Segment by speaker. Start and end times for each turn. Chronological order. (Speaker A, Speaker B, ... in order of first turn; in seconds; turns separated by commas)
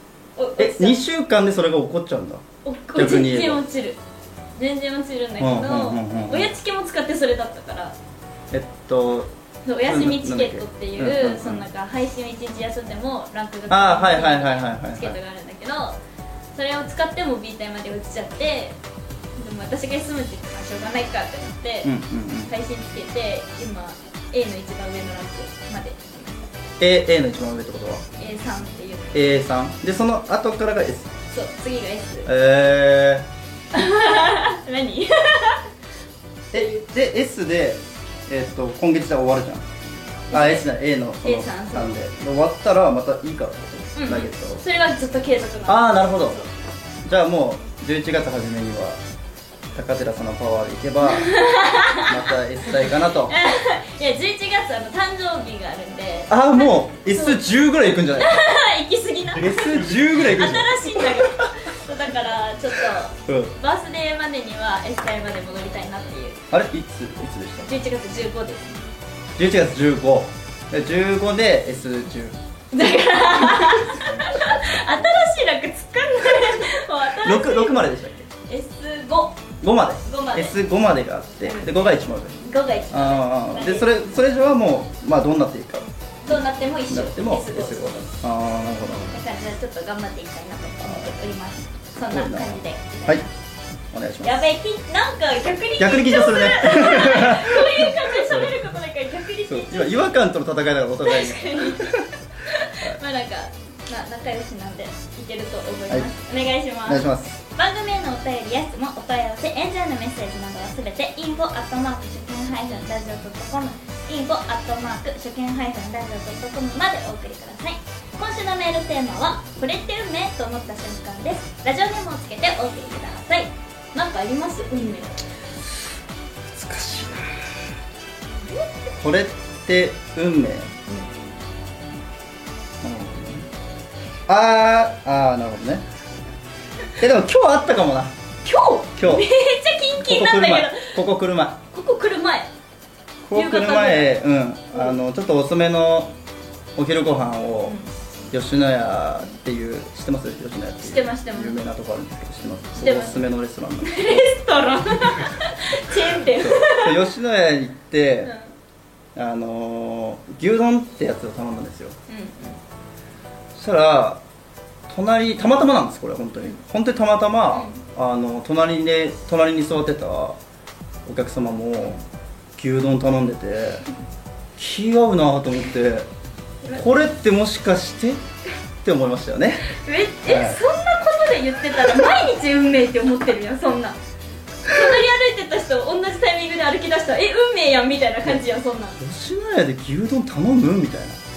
Speaker A: 0.4-1.0, Speaker B: 0.6-2.4, Speaker A: 2.6-4.0, Speaker B: 3.0-3.6, Speaker A: 4.6-8.0, Speaker B: 5.4-6.5, Speaker B: 8.5-9.3, Speaker A: 9.7-16.0, Speaker B: 9.8-11.7, Speaker B: 13.7-15.2, Speaker A: 16.6-18.8, Speaker A: 19.4-21.9, Speaker B: 21.8-22.5, Speaker A: 22.5-26.5, Speaker B: 26.8-28.1, Speaker A: 28.2-29.2, Speaker B: 29.1-31.1, Speaker A: 31.3-32.3, Speaker B: 32.3-33.3, Speaker A: 33.7-35.7, Speaker B: 36.5-39.7, Speaker A: 36.5-36.8, Speaker B: 40.3-44.6, Speaker A: 40.3-40.7, Speaker A: 41.2-42.0, Speaker A: 44.0-46.5, Speaker B: 45.7-46.4, Speaker B: 47.0-49.0, Speaker B: 49.7-51.4, Speaker A: 51.1-57.4, Speaker B: 51.9-53.4, Speaker B: 56.3-58.4, Speaker A: 58.2-66.4, Speaker B: 59.3-61.5, Speaker B: 62.8-63.5, Speaker B: 66.5-67.7, Speaker A: 67.7-68.8, Speaker B: 69.4-72.4, Speaker A: 72.7-77.8, Speaker B: 73.7-75.0, Speaker B: 77.2-78.3, Speaker A: 78.5-79.4, Speaker B: 79.6-82.4, Speaker A: 80.0-80.6, Speaker A: 81.4-83.9, Speaker B: 82.9-89.2, Speaker A: 86.2-88.1, Speaker A: 89.0-93.3, Speaker B: 90.8-91.1, Speaker B: 92.1-93.3, Speaker B: 93.9-94.5, Speaker A: 94.2-100.2, Speaker B: 95.8-98.6, Speaker B: 99.5-102.1, Speaker A: 101.0-125.2, Speaker B: 106.9-107.4, Speaker B: 126.5-127.7, Speaker A: 128.4-128.9, Speaker B: 129.0-130.7, Speaker B: 132.8-133.5, Speaker B: 134.3-135.9, Speaker B: 137.0-138.2, Speaker A: 138.4-141.0, Speaker B: 139.0-139.3, Speaker B: 140.0-141.6, Speaker A: 141.7-142.5, Speaker B: 143.2-146.2, Speaker A: 143.3-144.2, Speaker B: 146.8-147.8, Speaker A: 147.7-147.9, Speaker B: 148.3-154.3, Speaker A: 150.8-151.6, Speaker A: 152.8-153.2, Speaker A: 153.8-157.1, Speaker B: 156.3-158.3, Speaker A: 158.2-158.5, Speaker B: 159.2-162.0, Speaker A: 162.1-162.6, Speaker B: 163.6-164.2, Speaker B: 164.9-170.4, Speaker A: 167.5-167.8, Speaker B: 171.1-172.0, Speaker B: 172.6-173.8, Speaker B: 174.6-176.1, Speaker B: 176.8-178.2, Speaker B: 178.8-179.7, Speaker A: 179.7-184.0, Speaker B: 180.2-180.6, Speaker A: 184.7-189.0, Speaker B: 189.0-191.2